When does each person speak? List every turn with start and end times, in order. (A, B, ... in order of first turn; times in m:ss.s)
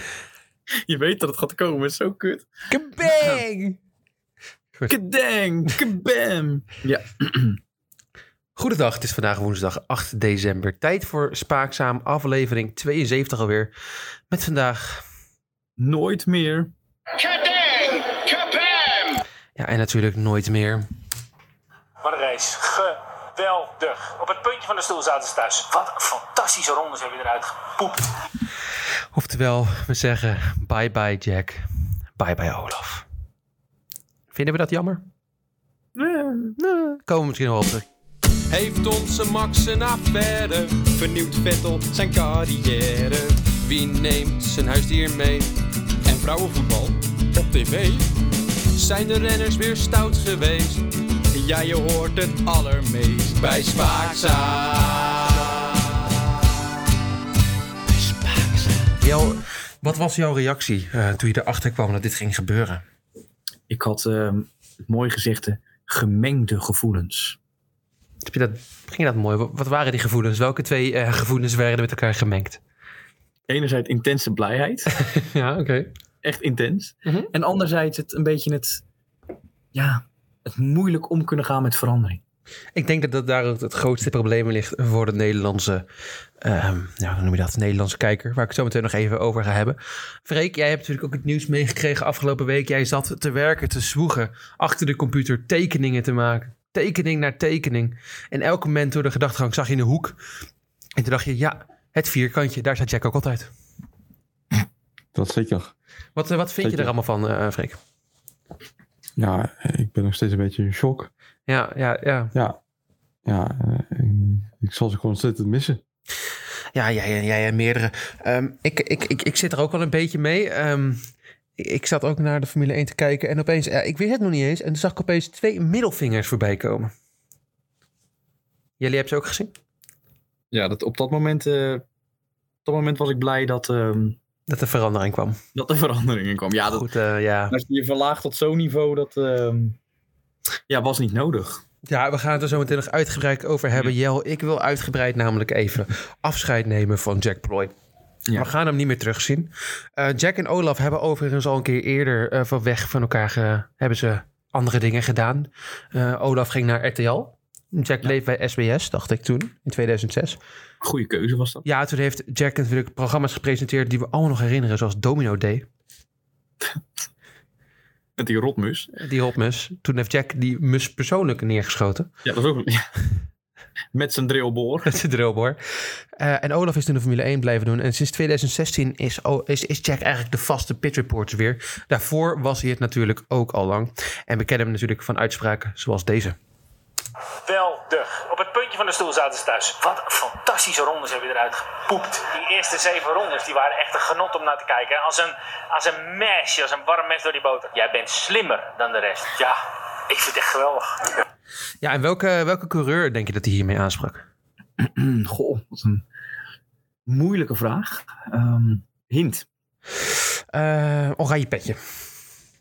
0:00.9-0:02.5 A
0:02.7-0:03.8 B
0:03.1-0:03.4 A
0:04.9-0:07.6 A
0:08.6-0:13.7 B
0:14.3-0:15.0 B
0:15.8-0:16.7 A
0:17.6-0:18.6 C
0:19.6-0:20.9 B
0:22.0-0:28.0 C
0:29.1-0:31.6 B
0:32.2-0:33.1 B
0:34.3-0:35.0 B
0:36.0-0:36.6 A
0:36.6-0:37.9 B
0:38.5-0:40.9 D
0:40.9-0:43.5 A
0:43.6-0:45.5 D
0:46.1-0:47.0 A
0:47.4-0:48.0 D
0:48.8-0:50.8 D
0:51.3-0:54.5 A
0:53.4-0:55.0 D
0:59.0-1:02.8 B
1:03.7-1:07.4 A
1:08.2-1:12.6 B
1:13.5-1:14.9 A
1:15.0-1:15.9 B
1:16.2-1:18.8 A
1:17.0-1:17.3 B
1:19.7-1:22.2 A
1:22.8-1:25.8 B
1:26.4-1:40.2 B
1:41.0-1:43.5 B
1:45.1-1:45.7 E
1:46.2-1:47.8 B
1:46.6-1:46.9 E
1:49.2-1:51.1 E
1:51.5-1:52.3 B
1:53.3-1:55.8 E
1:56.7-2:01.0 B
2:01.6-2:06.9 B
2:08.8-2:09.5 B
2:10.5-2:11.8 A
2:12.6-2:14.2 A
2:14.5-2:15.4 B
2:15.6-2:16.9 A
2:16.7-2:17.6 B
2:17.5-2:19.8 A
2:20.7-2:21.6 A
2:21.9-2:27.7 B
2:28.4-2:40.4 B
2:40.8-2:41.6 A
2:41.6-2:45.7 B
2:48.2-2:48.9 A
2:49.0-2:52.1 B
2:52.2-2:52.9 A
2:53.9-2:54.9 A
2:54.9-3:06.4 B
3:07.5-3:19.5 C
3:20.1-3:21.0 C
3:21.8-3:24.2 B
3:24.8-3:26.0 A
3:27.1-3:29.4 A
3:30.5-3:31.8 B